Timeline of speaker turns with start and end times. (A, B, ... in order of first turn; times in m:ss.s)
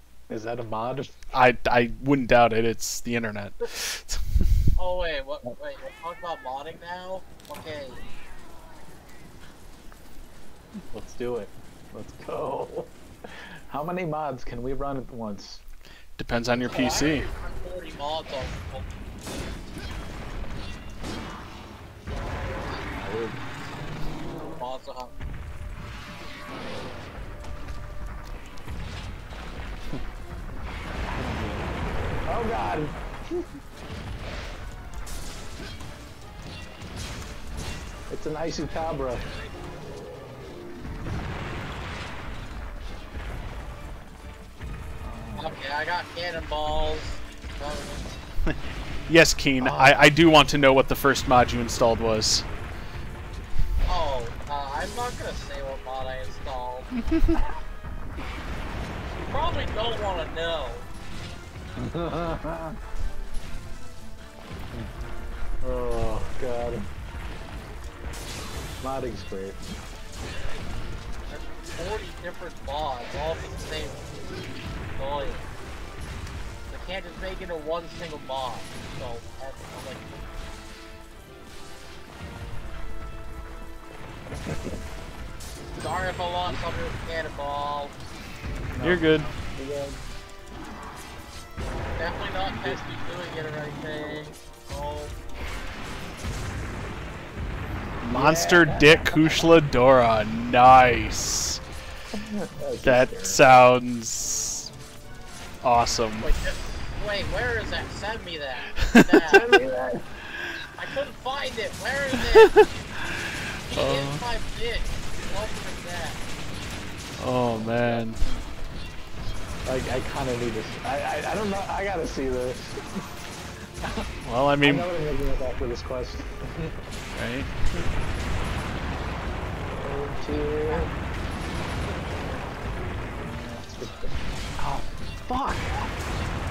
0:00.3-0:01.1 A
0:01.3-0:04.2 B
0:04.8-0:08.0 C
0:10.9-0:15.6 A
0:16.2-0:17.3 B
0:16.6-0:18.9 C
0:23.0-0:23.4 A
0:24.4-0:25.1 C
0:31.1-0:33.4 A
0:38.1-0:39.2 A
0:45.0-0:45.6 A
0:45.4-0:48.1 C
0:49.1-0:52.5 B
0:49.6-0:50.1 A
0:53.9-0:56.9 C
0:59.2-1:00.9 C
1:01.8-1:02.8 A
1:05.6-1:06.8 A
1:08.8-1:09.7 A
1:11.3-1:14.1 C
1:15.0-1:15.5 C
1:16.7-1:20.2 C
1:25.8-1:28.0 C
1:28.7-1:30.0 A
1:28.8-1:29.3 B
1:32.0-1:35.2 C
1:32.5-1:32.8 A
1:38.0-1:39.4 A
1:38.1-1:41.6 B
1:42.1-1:43.5 A
1:42.8-1:44.7 B
1:45.6-1:46.3 B
1:46.2-1:49.5 C
1:48.8-1:49.2 B
1:49.3-1:50.0 A
1:50.3-1:50.6 B
1:50.8-1:52.5 C
1:52.4-1:54.2 B
1:53.7-1:56.2 C
1:57.2-1:58.2 B
1:57.6-1:58.0 A
1:59.7-2:02.8 A
2:04.2-2:04.9 B
2:04.6-2:06.7 A
2:07.2-2:07.9 B
2:09.8-2:10.9 A
2:10.3-2:10.9 C
2:13.2-2:15.9 A